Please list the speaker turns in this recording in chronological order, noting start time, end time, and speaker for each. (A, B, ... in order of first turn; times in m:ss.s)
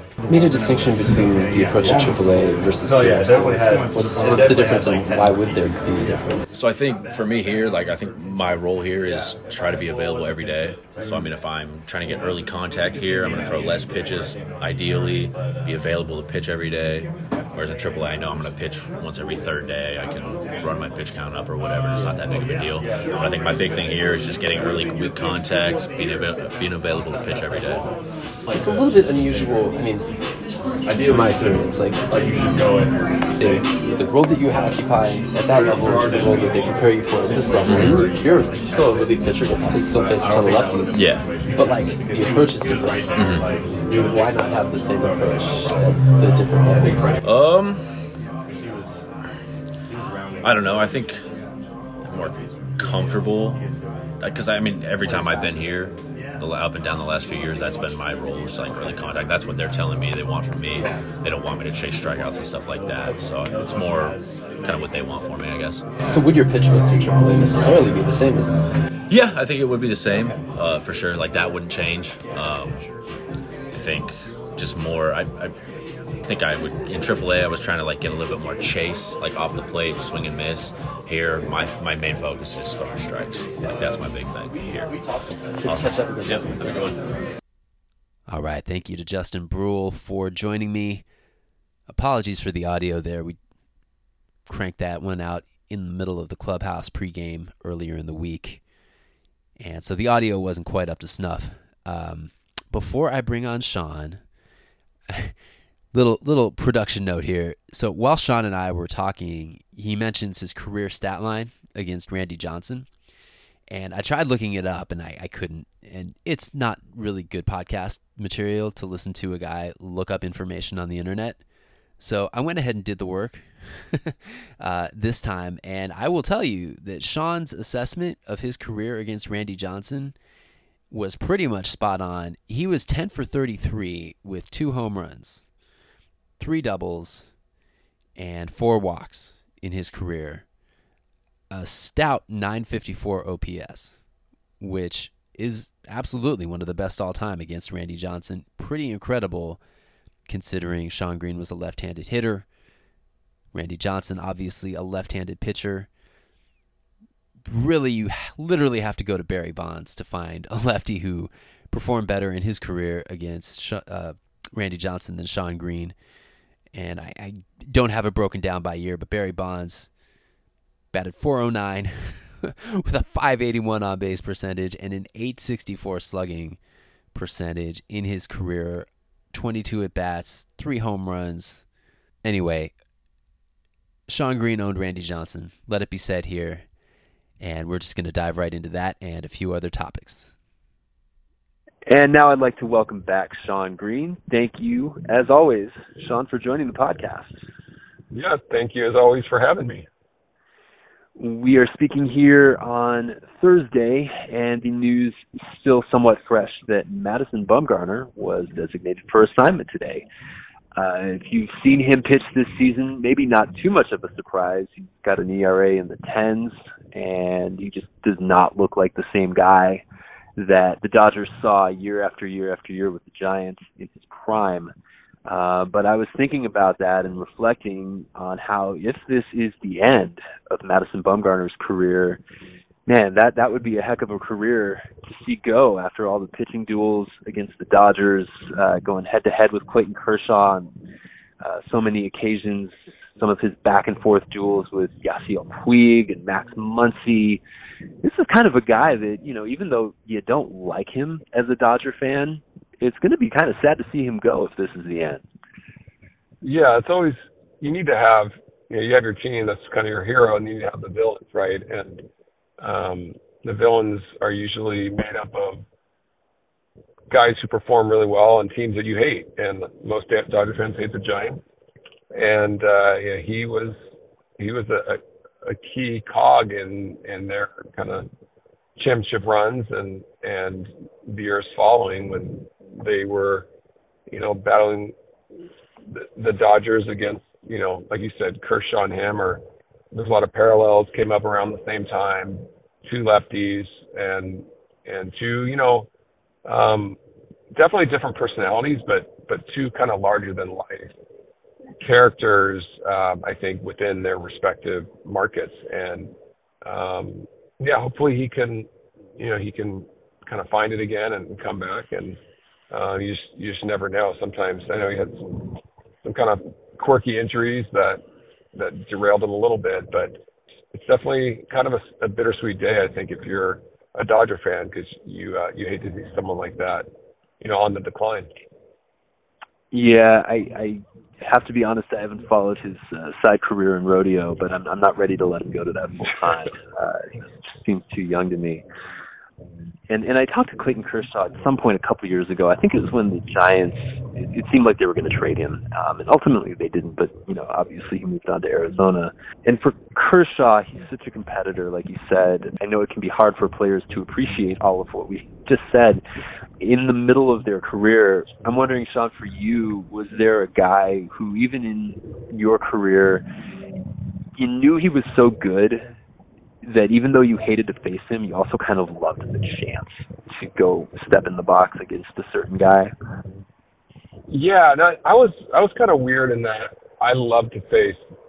0:00.3-0:06.4 A
0:06.5-0:27.9 B
0:28.5-0:30.0 A
0:30.9-0:32.4 A
0:33.4-0:41.0 A
0:37.6-0:38.1 B
0:40.9-0:41.3 B
0:41.6-0:43.0 A
0:43.1-0:43.5 B
0:43.8-0:47.1 A
0:47.2-0:47.8 B
0:50.4-0:51.2 B
0:52.0-0:53.6 B
0:54.2-1:05.8 B
1:06.0-1:08.7 A
1:09.1-1:12.8 B
1:13.7-1:15.5 B
1:16.2-1:24.9 B
1:25.6-1:26.5 A
1:25.6-1:27.0 B
1:28.3-1:31.0 C
1:31.9-1:33.4 C
1:34.4-1:38.6 C
1:39.6-1:44.2 C
1:45.1-1:45.3 C
1:45.9-1:52.9 C
1:53.7-2:01.4 C
2:02.0-2:10.2 C
2:10.9-2:15.4 C
2:16.4-2:17.3 C
2:18.2-2:20.4 C
2:21.5-2:24.0 C
2:24.6-2:29.6 C
2:30.3-2:32.4 C
2:33.5-2:35.9 C
2:37.4-2:45.9 C
2:46.7-2:49.9 C
2:50.9-2:56.6 C
2:57.1-3:01.6 C
3:02.2-3:02.7 C
3:04.1-3:06.6 C
3:07.4-3:10.3 C
3:11.9-3:17.4 D
3:18.1-3:19.9 E
3:21.2-3:30.0 D
3:30.8-3:39.8 D
3:40.4-3:44.7 D
3:45.2-3:52.2 D
3:52.9-4:00.7 D
4:01.4-4:07.4 D
4:08.0-4:15.2 D
4:16.4-4:22.1 E
4:22.6-4:25.6 E
4:27.1-4:31.4 E
4:32.1-4:33.8 E
4:34.4-4:38.0 E
4:38.8-4:43.5 E
4:44.1-4:44.9 E
4:45.9-4:55.9 E
4:56.4-4:57.0 E
4:57.5-5:00.9 E
5:01.8-5:12.2 E
5:12.7-5:18.0 E
5:18.5-5:20.2 E
5:20.7-5:26.9 E
5:27.4-5:28.3 E
5:29.7-5:38.6 D
5:39.9-5:56.0 D
5:56.6-6:03.2 D
6:04.4-6:05.9 D
6:06.6-6:12.9 D
6:14.3-6:18.0 E